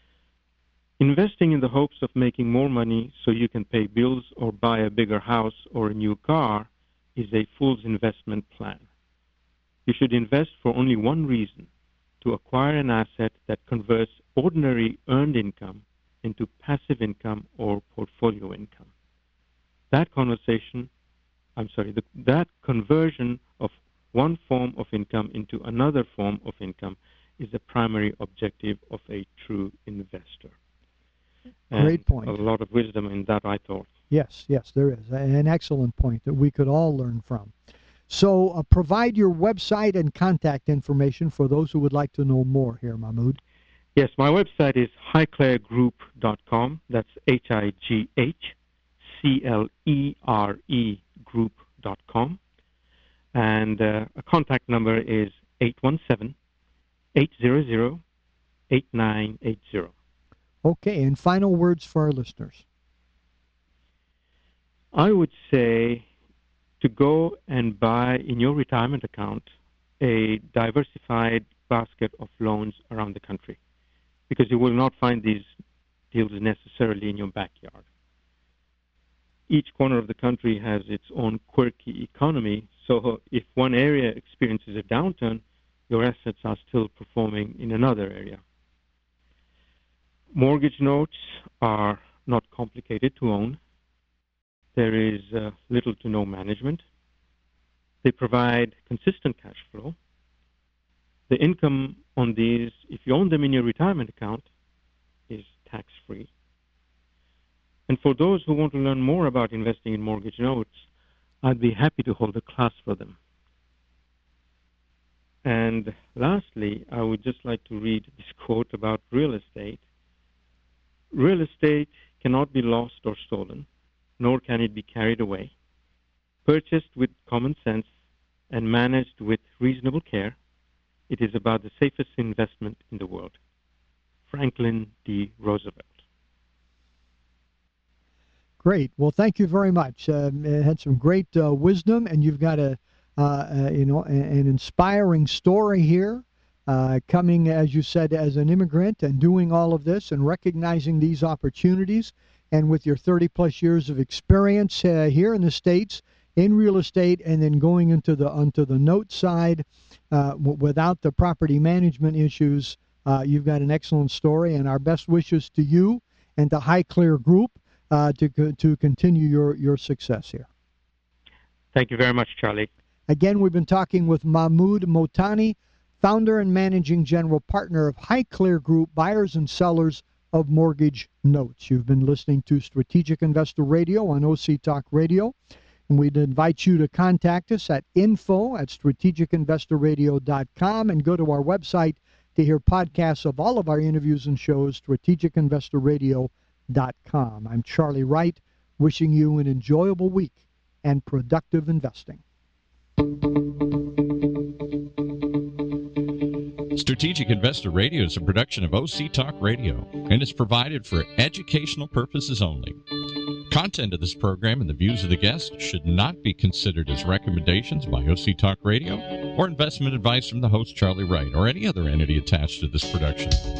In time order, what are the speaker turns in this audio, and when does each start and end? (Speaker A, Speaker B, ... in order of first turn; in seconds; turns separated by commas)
Speaker A: 1.0-8.8, Speaker A: 9.8-11.7, Speaker A: 12.2-18.9, Speaker A: 19.9-20.9, Speaker A: 21.6-30.5, Speaker A: 31.7-33.9, Speaker B: 31.7-32.4, Speaker B: 34.1-37.5, Speaker B: 38.1-43.4, Speaker A: 43.9-48.5, Speaker A: 49.1-52.4, Speaker A: 53.3-56.3, Speaker A: 57.1-58.0, Speaker A: 58.7-59.9, Speaker B: 60.6-62.6, Speaker A: 64.9-66.0, Speaker A: 66.8-73.6, Speaker A: 74.3-75.5, Speaker A: 76.1-77.8, Speaker A: 79.5-88.4, Speaker A: 90.3-93.6, Speaker A: 94.7-96.8, Speaker A: 98.0-100.0, Speaker A: 101.3-104.5, Speaker A: 105.3-106.3, Speaker A: 107.9-110.8, Speaker A: 111.4-113.2, Speaker A: 115.4-119.8, Speaker A: 121.1-123.7, Speaker A: 124.2-125.5, Speaker A: 126.4-127.9, Speaker A: 128.5-130.3, Speaker A: 131.1-133.4, Speaker A: 134.3-135.9, Speaker B: 138.6-170.5, Speaker A: 171.7-172.7, Speaker B: 173.1-185.3, Speaker B: 185.9-202.2, Speaker C: 206.7-212.8, Speaker C: 213.5-223.4